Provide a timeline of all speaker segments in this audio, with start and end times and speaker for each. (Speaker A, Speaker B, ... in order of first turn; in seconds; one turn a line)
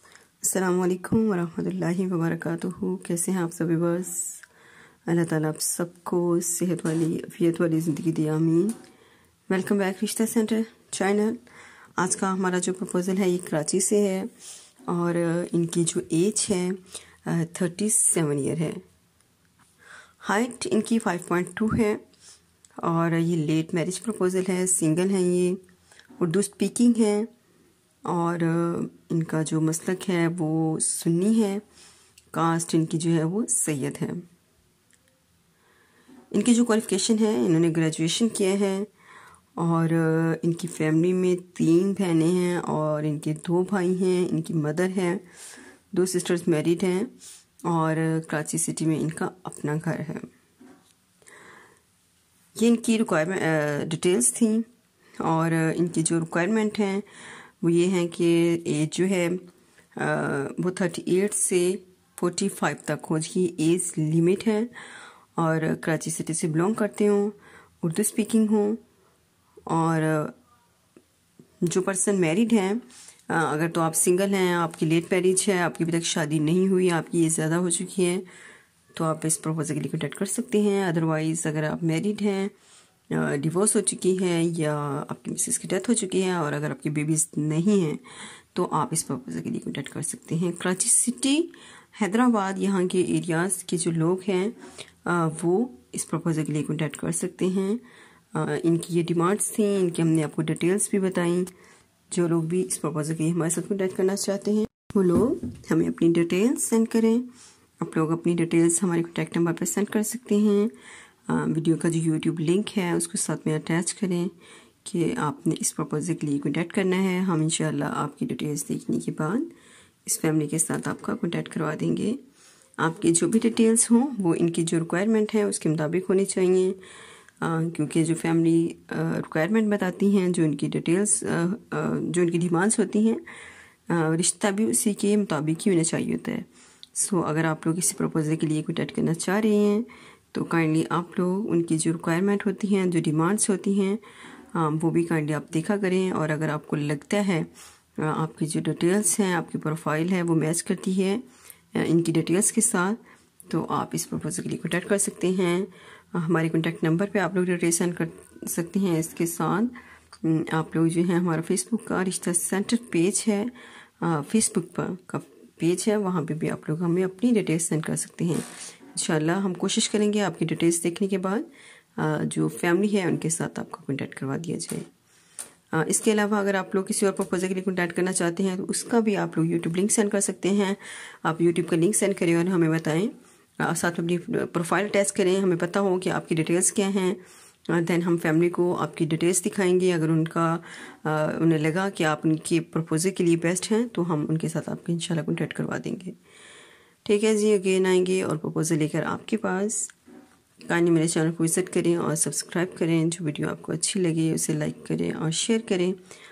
Speaker A: 0.4-4.4
Speaker A: 5.1-8.8
Speaker A: 9.5-11.4
Speaker A: 12.0-14.3
Speaker A: 14.9-18.8
Speaker A: 20.2-22.0
Speaker A: 22.8-25.6
Speaker A: 26.2-27.3
Speaker A: 28.0-31.6
Speaker A: 32.3-34.2
Speaker A: 36.3-38.9
Speaker A: 39.6-45.2
Speaker A: 45.9-47.1
Speaker A: 47.6-50.3
Speaker A: 52.5-54.7
Speaker A: 55.2-57.1
Speaker A: 57.6-64.7
Speaker A: 65.4-68.8
Speaker A: 69.7-70.3
Speaker A: 71.6-78.2
Speaker A: 78.9-82.5
Speaker A: 83.1-101.5
Speaker A: 102.1-107.3
Speaker A: 107.8-110.7
Speaker A: 111.3-114.3
Speaker A: 114.8-119.5
Speaker A: 120.0-122.2
Speaker A: 122.8-126.8
Speaker A: 127.4-133.2
Speaker A: 133.9-174.9
Speaker A: 175.7-196.2
Speaker A: 197.0-199.9
Speaker A: 200.7-206.0